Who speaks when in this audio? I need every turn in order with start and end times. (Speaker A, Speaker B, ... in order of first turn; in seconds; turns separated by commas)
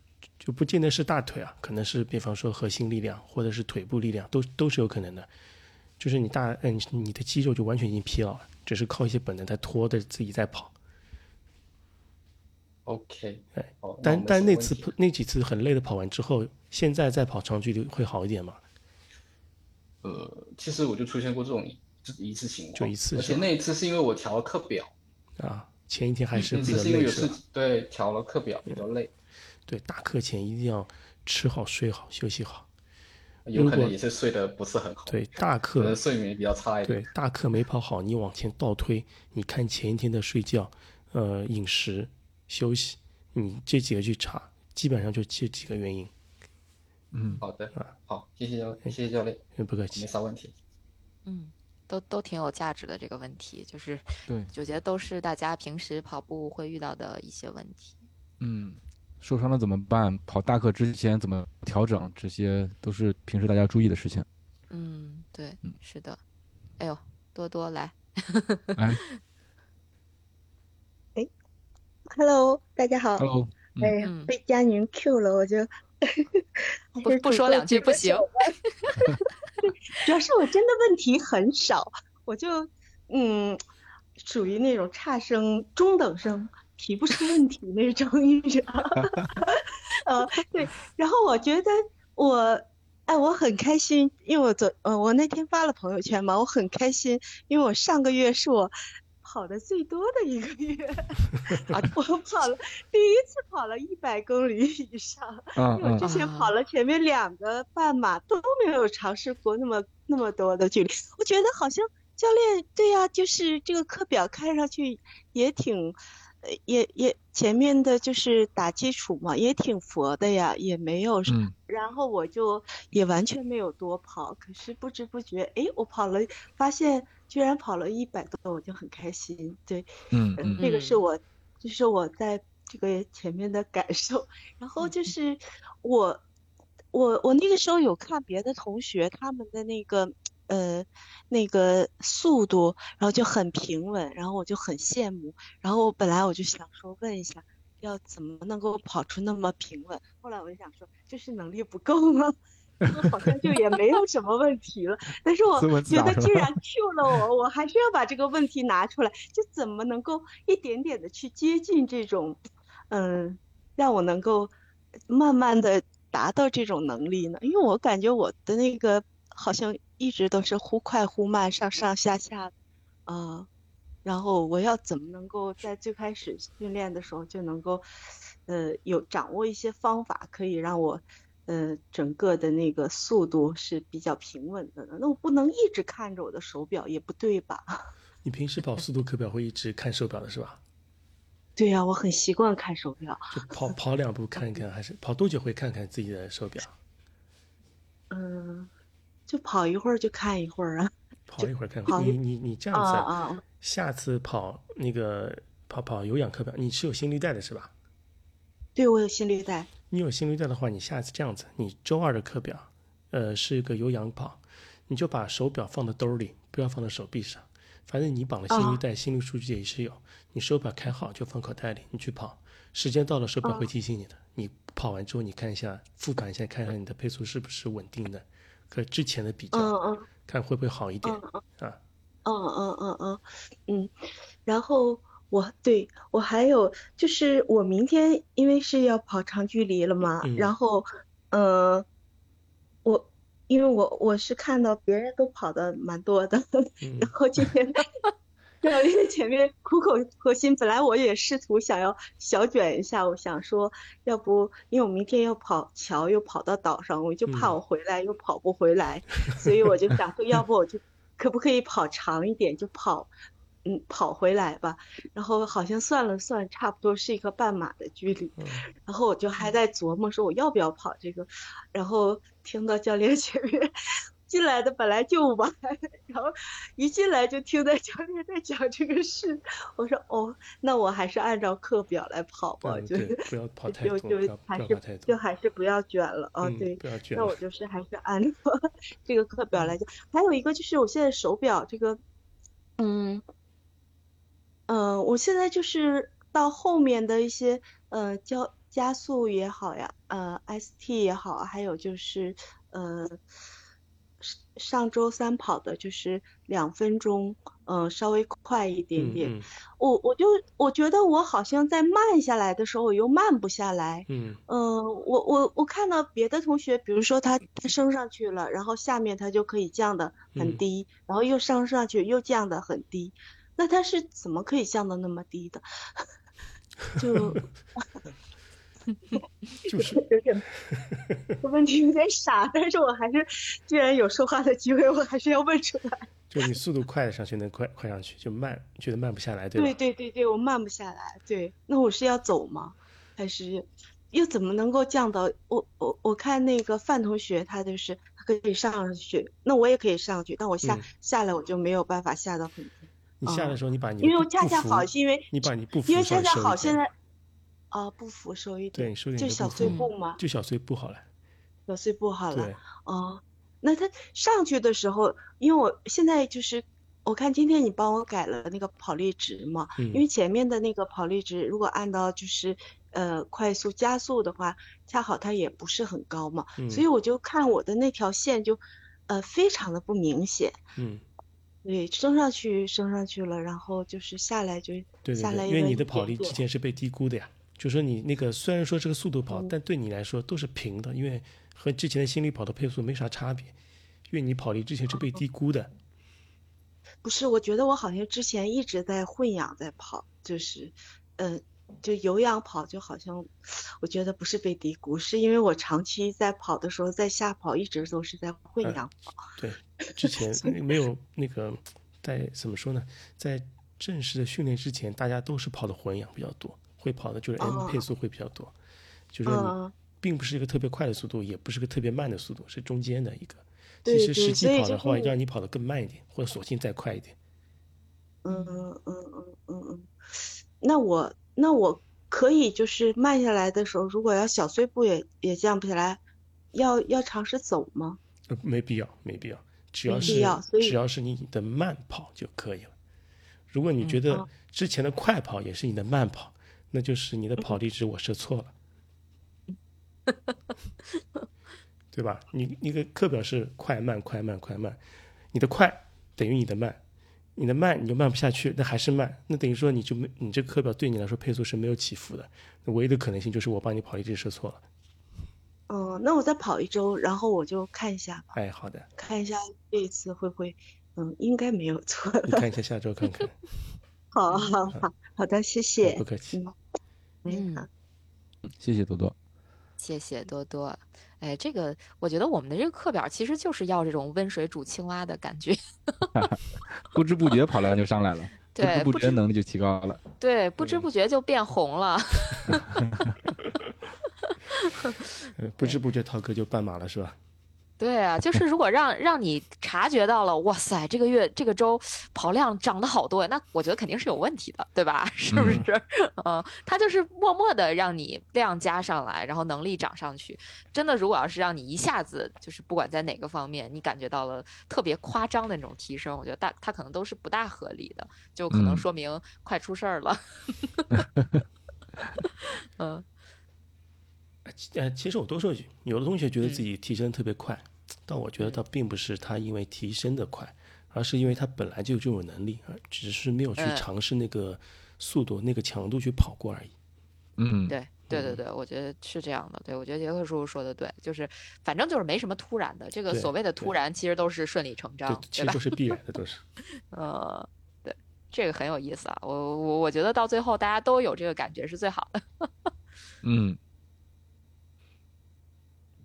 Speaker A: 0.4-5.3, Speaker A: 6.0-10.7, Speaker B: 12.9-14.9, Speaker A: 13.6-18.6, Speaker B: 20.0-24.9, Speaker A: 22.8-23.5, Speaker A: 25.4-27.4, Speaker B: 26.4-29.1, Speaker A: 29.7-32.7, Speaker B: 33.5-37.1, Speaker A: 33.5-34.0, Speaker A: 35.1-36.0, Speaker A: 36.9-46.1, Speaker C: 47.1-47.4, Speaker B: 47.4-49.4, Speaker A: 49.6-50.1, Speaker B: 49.9-50.5, Speaker D: 51.2-58.0, Speaker C: 58.4-64.3, Speaker D: 64.7-66.2, Speaker D: 66.8-69.1, Speaker C: 68.8-69.0, Speaker E: 72.1-73.3, Speaker C: 73.2-74.0, Speaker E: 73.8-78.5, Speaker D: 74.0-74.3, Speaker D: 77.0-79.1, Speaker E: 79.2-83.6, Speaker E: 84.2-136.2, Speaker C: 105.6-106.0, Speaker D: 106.0-106.5, Speaker C: 121.3-121.5, Speaker C: 130.1-130.6, Speaker D: 130.6-131.0, Speaker D: 134.8-135.1, Speaker E: 136.9-152.4, Speaker C: 152.8-153.1, Speaker E: 152.9-164.5, Speaker C: 155.6-156.6, Speaker E: 165.1-172.5, Speaker E: 173.1-173.5, Speaker E: 174.1-177.8, Speaker E: 178.5-187.7, Speaker A: 188.2-190.6, Speaker E: 191.6-193.7, Speaker A: 193.3-196.8, Speaker E: 198.1-198.7, Speaker E: 199.3-202.2, Speaker A: 201.3-207.7, Speaker E: 202.7-203.4, Speaker E: 208.8-209.7, Speaker A: 209.9-231.8, Speaker E: 218.5-218.8, Speaker E: 223.4-223.7, Speaker E: 229.5-230.1, Speaker E: 231.0-231.4, Speaker E: 232.2-233.9, Speaker E: 234.5-241.9, Speaker A: 240.2-240.5, Speaker E: 242.8-247.8, Speaker A: 246.8-247.1, Speaker E: 248.6-263.1, Speaker A: 257.3-257.6, Speaker E: 263.6-273.7, Speaker A: 268.4-268.6, Speaker E: 274.3-292.0, Speaker A: 282.6-285.1, Speaker A: 286.4-287.4, Speaker E: 292.8-293.2, Speaker E: 294.7-303.2, Speaker E: 304.2-326.1, Speaker A: 309.0-309.5, Speaker A: 314.1-314.4, Speaker A: 320.4-320.6, Speaker E: 327.0-328.0, Speaker A: 329.7-330.0, Speaker E: 329.7-330.4, Speaker E: 331.4-336.1, Speaker A: 336.3-339.8, Speaker E: 339.6-356.9, Speaker A: 350.6-350.9, Speaker A: 353.2-356.8, Speaker E: 357.7-360.2, Speaker A: 358.7-361.1, Speaker D: 359.6-359.9, Speaker E: 361.7-380.6, Speaker A: 362.3-362.6, Speaker A: 369.8-370.0, Speaker A: 376.6-376.9, Speaker A: 380.8-381.0, Speaker E: 381.6-386.4, Speaker A: 385.1-393.6, Speaker A: 394.1-395.7, Speaker E: 397.0-409.1, Speaker A: 409.4-418.6, Speaker E: 409.8-410.5, Speaker E: 417.4-417.8, Speaker A: 419.1-427.2, Speaker E: 419.3-419.7, Speaker E: 423.9-425.1, Speaker E: 428.2-429.9, Speaker D: 428.3-428.7, Speaker E: 430.6-436.0, Speaker E: 436.5-438.0, Speaker A: 438.3-442.7, Speaker E: 439.9-440.8, Speaker D: 439.9-440.2, Speaker A: 443.5-448.5, Speaker A: 451.9-454.8, Speaker A: 455.3-456.8, Speaker A: 457.4-464.6, Speaker E: 465.7-468.4, Speaker A: 468.3-468.9, Speaker E: 469.0-472.5, Speaker A: 472.3-473.4, Speaker E: 474.1-476.6, Speaker D: 474.3-474.6, Speaker A: 475.8-476.4, Speaker E: 477.2-477.7, Speaker D: 477.3-477.7, Speaker C: 478.5-479.1, Speaker D: 479.8-486.1, Speaker C: 486.1-490.0, Speaker D: 488.5-489.2, Speaker D: 490.2-492.8, Speaker C: 492.5-493.1, Speaker D: 494.3-495.0, Speaker A: 495.4-497.2, Speaker D: 497.8-521.1, Speaker C: 505.3-505.7, Speaker C: 518.5-518.9, Speaker C: 521.2-521.4, Speaker D: 522.2-523.0, Speaker A: 524.5-536.7, Speaker D: 526.4-526.7, Speaker D: 533.6-533.9, Speaker C: 537.4-537.8, Speaker D: 537.7-545.6, Speaker A: 538.1-538.4, Speaker A: 543.1-543.7, Speaker A: 545.1-546.4, Speaker D: 546.9-552.7, Speaker C: 553.2-553.6